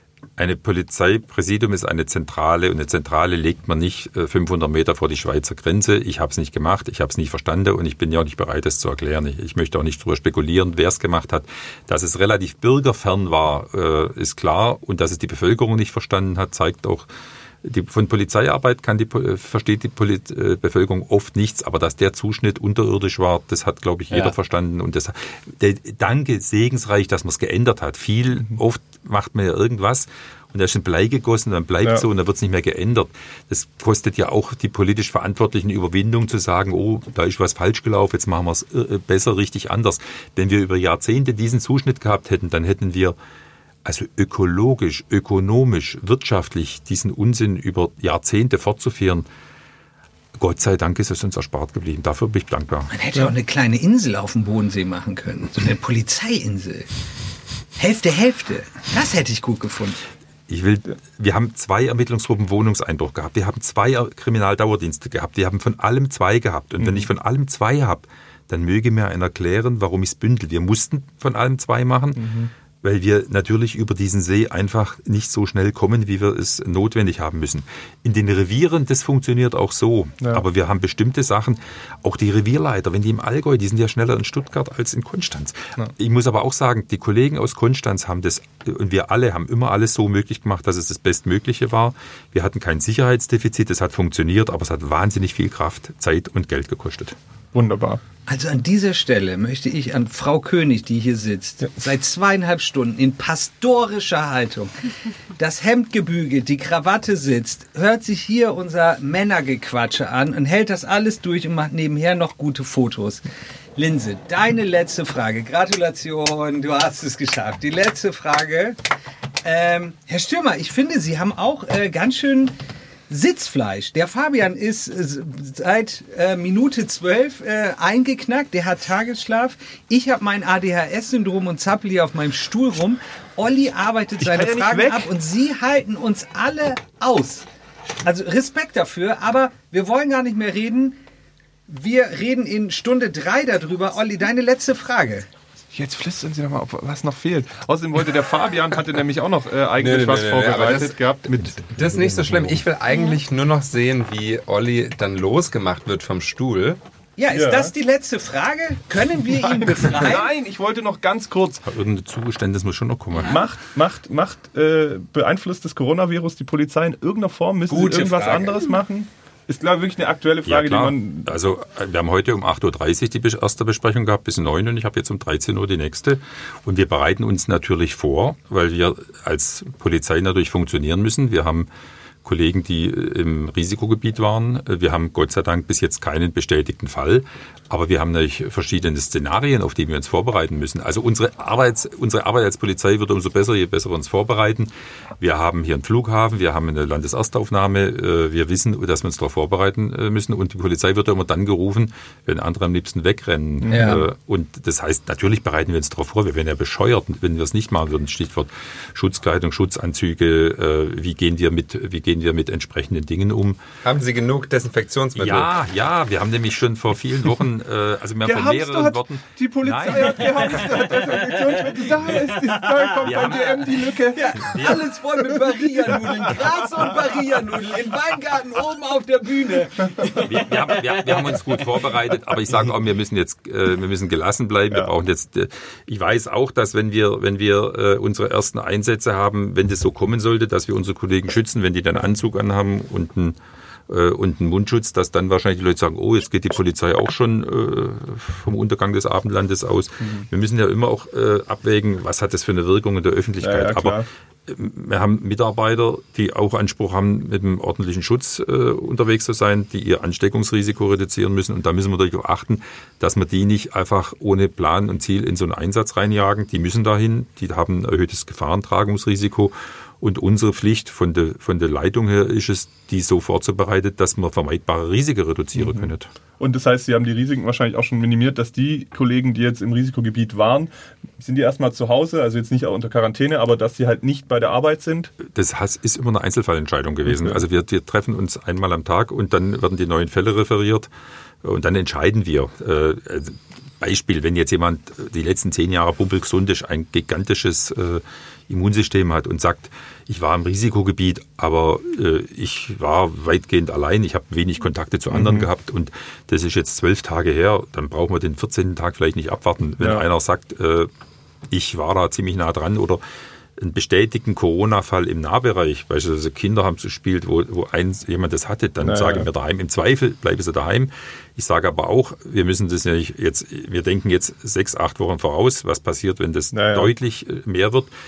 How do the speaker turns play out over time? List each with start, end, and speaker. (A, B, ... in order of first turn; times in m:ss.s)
0:00.4-0:17.1 A
0:17.6-0:43.2 A
0:24.1-0:24.4 B
0:43.8-0:49.3 A
0:50.4-0:52.9 A
0:52.9-0:56.9 B
0:57.8-1:00.0 B
1:00.5-1:12.3 A
1:06.8-1:07.1 C
1:12.2-1:12.5 C
1:12.8-1:37.2 A
1:37.5-1:38.0 C
1:38.3-1:44.7 B
1:45.4-1:53.2 B
1:53.8-1:58.8 B
1:59.4-2:02.6 B
2:03.1-2:17.5 B
2:14.2-2:15.1 C
2:18.0-2:21.0 B
2:21.7-2:25.3 B
2:25.7-2:31.6 C
2:29.8-2:31.0 D
2:31.6-2:36.8 D
2:37.2-2:40.3 B
2:37.3-2:37.7 C
2:39.3-2:41.6 C
2:41.6-2:43.4 A
2:43.2-2:51.3 C
2:47.7-2:48.7 B
2:50.5-3:01.7 A
3:02.2-3:33.6 A
3:23.6-3:24.0 C
3:23.7-3:24.0 B
3:33.8-3:35.5 D
3:35.2-3:41.0 A
3:38.2-3:44.8 C
3:42.8-3:43.5 B
3:43.0-3:43.7 A
3:44.1-3:51.4 B
3:44.4-3:44.8 A
3:50.2-4:03.4 A
4:03.9-4:36.1 A
4:13.4-4:14.1 C
4:35.6-4:45.1 C
4:45.2-4:50.9 A
4:47.1-4:47.4 C
4:51.4-5:10.9 A
5:05.1-5:05.5 C
5:11.5-5:13.0 A
5:13.6-5:27.9 A
5:18.8-5:19.3 C
5:26.5-5:26.9 C